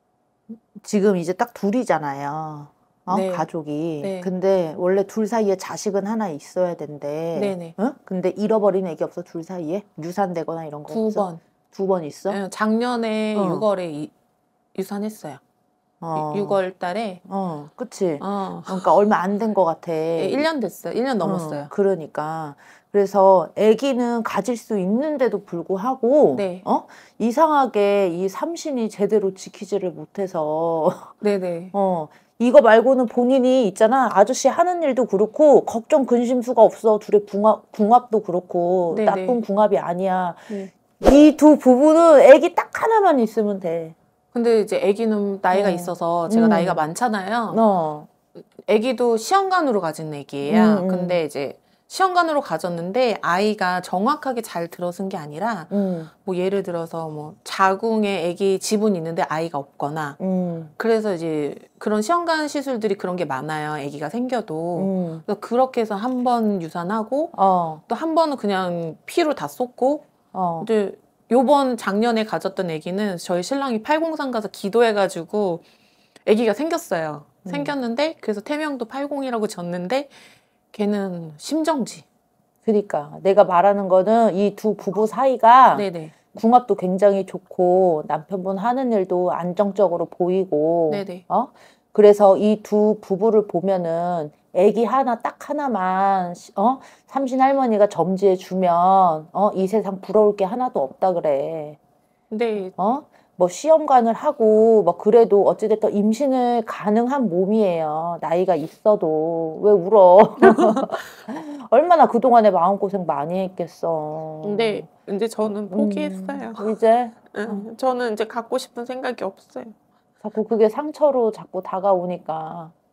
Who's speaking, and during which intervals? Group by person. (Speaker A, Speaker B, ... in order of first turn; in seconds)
Speaker A: 0.7-12.4, 13.3-13.6, 16.0-16.6, 17.2-20.4, 21.2-31.1, 31.7-43.9, 45.5-46.8, 47.5-48.1, 50.4-51.2, 55.7-56.1, 60.2-60.7, 64.7-65.2, 67.3-67.8, 70.3-70.7, 77.4-77.7, 82.6-101.8, 102.8-114.9, 115.5-117.7, 120.2-122.7
Speaker B: 3.1-3.5, 4.0-4.3, 7.3-7.8, 10.9-11.4, 12.3-14.1, 14.7-15.4, 16.1-17.2, 18.2-18.9, 20.2-21.7, 26.3-26.6, 31.2-31.7, 38.9-39.4, 44.3-47.6, 48.4-60.2, 60.8-67.3, 67.9-70.0, 70.6-75.6, 76.2-80.2, 80.7-82.0, 85.7-86.1, 90.9-91.2, 102.3-102.7, 110.4-111.1, 114.4-116.7, 117.3-119.7